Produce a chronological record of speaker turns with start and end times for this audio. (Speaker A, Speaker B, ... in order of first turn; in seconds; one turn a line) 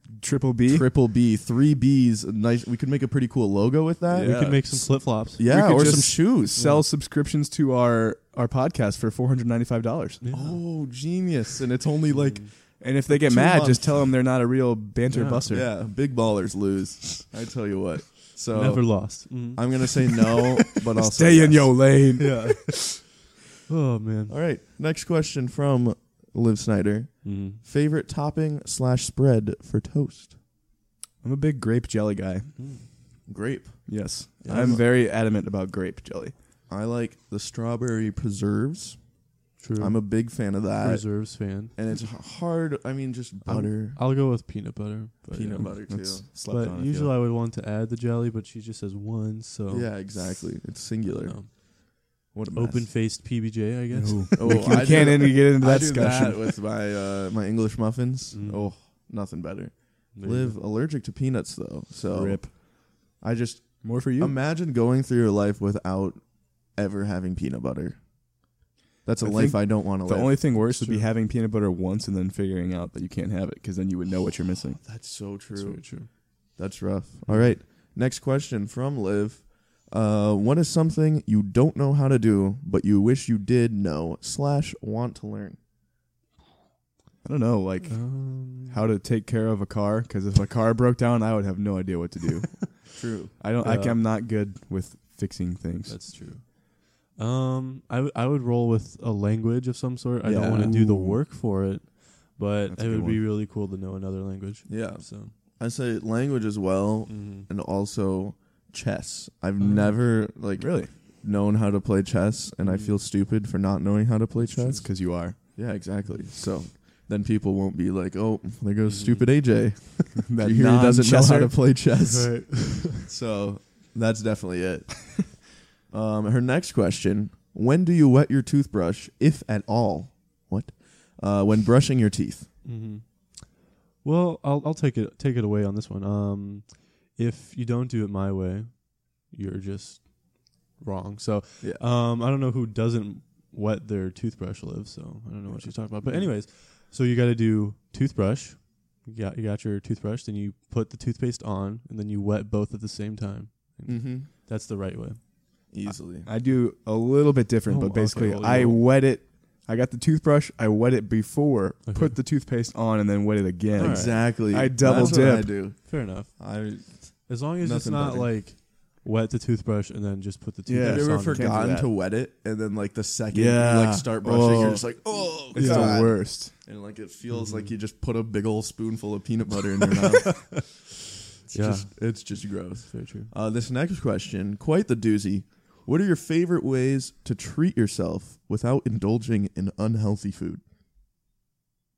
Speaker A: 0.2-0.9
Speaker B: 0.7-6.6
Speaker A: 4.1-10.2
Speaker C: 4.2-6.0
Speaker C: 6.5-6.8
Speaker C: 10.2-10.6
Speaker B: 10.3-14.0
Speaker C: 12.1-12.5
Speaker A: 12.8-15.7
Speaker C: 15.1-15.4
Speaker B: 15.5-22.0
Speaker C: 18.5-19.8
Speaker A: 21.0-22.7
Speaker C: 22.2-22.8
Speaker C: 23.7-24.4
Speaker B: 24.3-30.3
Speaker C: 27.2-27.6
Speaker A: 31.2-32.9
Speaker C: 32.5-32.8
Speaker B: 33.3-34.8
Speaker A: 33.9-36.3
Speaker C: 34.4-34.8
Speaker B: 36.7-39.2
Speaker C: 39.6-41.7
Speaker B: 39.8-44.0
Speaker C: 43.5-50.3
Speaker B: 45.3-46.2
Speaker A: 45.7-47.1
Speaker B: 49.7-52.9
Speaker C: 51.2-51.5
Speaker C: 52.0-54.9
Speaker A: 53.9-56.5
Speaker B: 54.3-68.1
Speaker C: 58.3-58.7
Speaker C: 60.1-60.6
Speaker A: 62.1-62.5
Speaker A: 63.8-64.3
Speaker B: 69.0-70.4
Speaker A: 69.2-74.8
Speaker C: 70.5-71.1
Speaker B: 74.8-85.6
Speaker C: 75.5-76.1
Speaker C: 77.2-77.5
Speaker A: 87.2-96.0
Speaker C: 87.8-88.8
Speaker B: 92.9-93.3
Speaker C: 93.6-94.0
Speaker C: 95.9-105.3
Speaker A: 100.2-101.2
Speaker B: 100.3-100.8
Speaker A: 102.7-103.2
Speaker B: 104.7-132.5
Speaker C: 107.1-107.5
Speaker C: 109.6-110.0
Speaker A: 110.6-110.9
Speaker C: 112.6-113.0
Speaker C: 114.4-114.8
Speaker A: 114.7-115.3
Speaker C: 118.8-119.9
Speaker A: 120.2-121.5
Speaker C: 122.0-123.0
Speaker C: 132.6-155.9
Speaker B: 145.5-146.3
Speaker B: 153.8-154.3
Speaker B: 155.7-156.3
Speaker A: 156.2-165.5
Speaker C: 157.6-158.9
Speaker C: 161.8-162.2
Speaker C: 163.7-171.6
Speaker B: 163.8-168.3
Speaker A: 170.7-171.9
Speaker B: 170.8-180.6
Speaker A: 173.3-176.5
Speaker C: 175.5-176.1
Speaker C: 177.3-177.7
Speaker B: 181.4-190.6
Speaker C: 181.5-183.3